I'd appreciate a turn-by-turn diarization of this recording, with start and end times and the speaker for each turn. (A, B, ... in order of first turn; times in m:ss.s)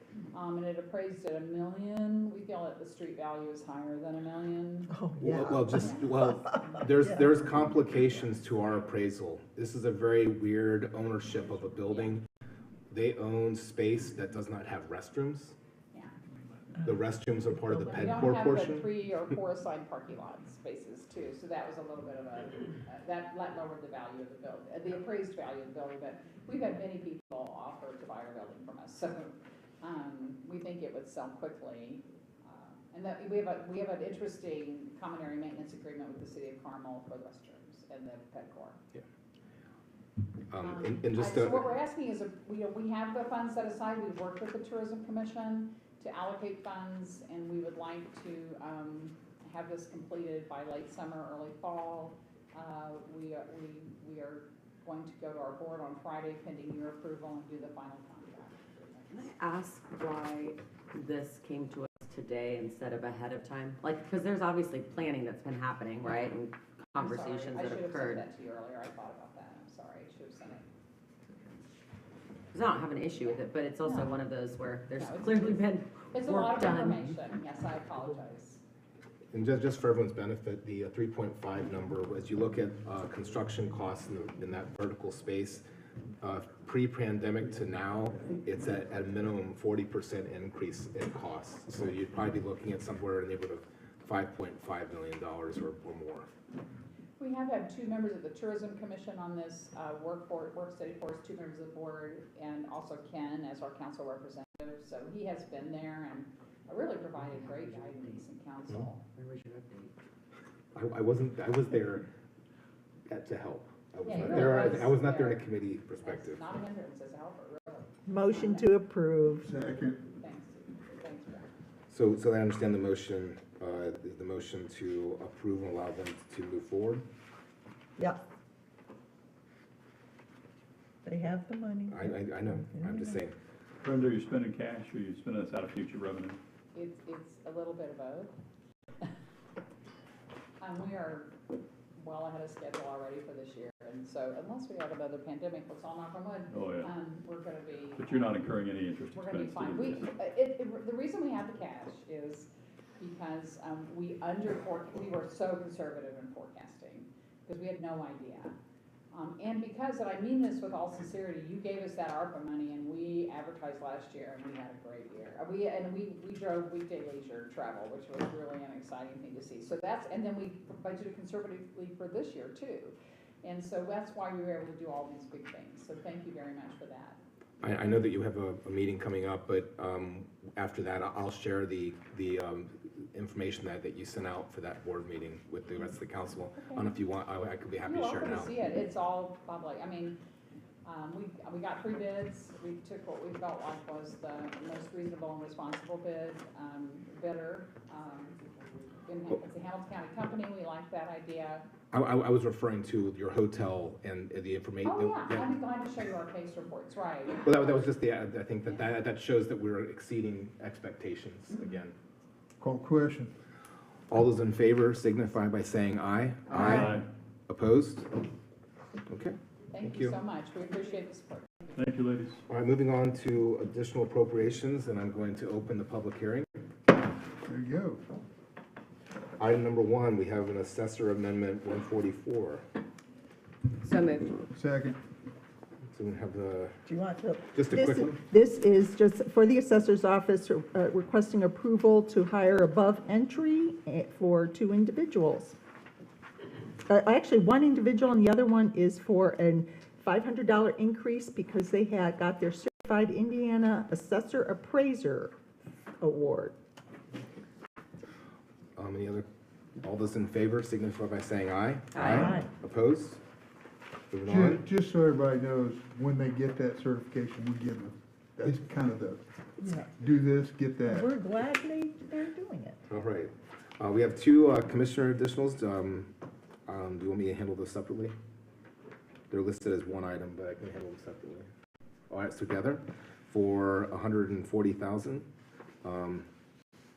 0:00.3-0:04.9 A
0:04.9-0:07.3 B
0:05.2-0:12.2 C
0:05.7-0:06.1 A
0:11.8-0:12.1 A
0:12.9-0:15.5 C
0:16.8-0:18.9 C
0:17.8-0:38.8 A
0:40.5-0:41.7 C
0:40.6-0:59.2 A
0:59.1-1:08.2 D
1:06.9-1:10.6 A
1:12.5-1:17.1 D
1:13.8-1:14.2 A
1:14.9-1:18.6 A
1:19.3-1:25.6 C
1:26.2-1:36.3 C
1:37.2-1:49.0 A
1:50.7-1:52.1 C
1:53.1-1:56.4 C
1:54.0-1:55.5 A
1:56.0-1:58.7 A
1:58.1-1:59.5 B
1:59.4-2:00.0 E
1:59.7-2:01.5 A
2:01.9-2:07.0 C
2:11.0-2:13.2 B
2:11.9-2:13.4 C
2:13.8-2:16.4 F
2:16.7-2:18.3 A
2:20.6-2:21.3 A
2:22.0-2:28.3 A
2:26.5-2:26.9 F
2:28.0-2:30.0 F
2:29.1-2:38.6 A
2:39.1-2:57.2 A
2:57.6-3:08.5 C
3:06.6-3:06.9 A
3:07.8-3:10.2 A
3:10.8-3:18.4 A
3:19.0-3:21.7 A
3:21.9-3:25.6 C
3:24.8-3:27.9 A
3:27.4-3:31.9 C
3:32.6-3:33.3 E
3:34.1-3:38.1 C
3:36.5-3:37.1 F
3:39.1-3:40.2 C
3:39.7-3:41.8 A
3:41.7-3:42.4 F
3:42.5-3:46.5 C
3:47.4-3:48.0 E
3:49.4-3:52.6 C
3:53.8-3:54.4 D
3:54.5-3:55.0 E
3:55.9-3:56.8 C
3:56.8-4:05.6 B
3:57.5-3:58.2 C
4:06.9-4:15.3 B
4:16.0-4:16.5 B
4:18.8-4:19.2 C
4:19.8-4:23.2 C
4:21.9-4:22.3 D
4:22.0-4:22.5 B
4:24.1-4:24.6 C
4:24.2-4:29.2 E
4:29.6-4:29.9 B
4:30.0-4:31.1 E
4:30.8-4:32.8 B
4:32.9-4:36.1 C
4:36.6-4:38.1 C
4:39.3-4:41.5 C
4:42.1-4:45.2 C
4:45.8-4:46.2 C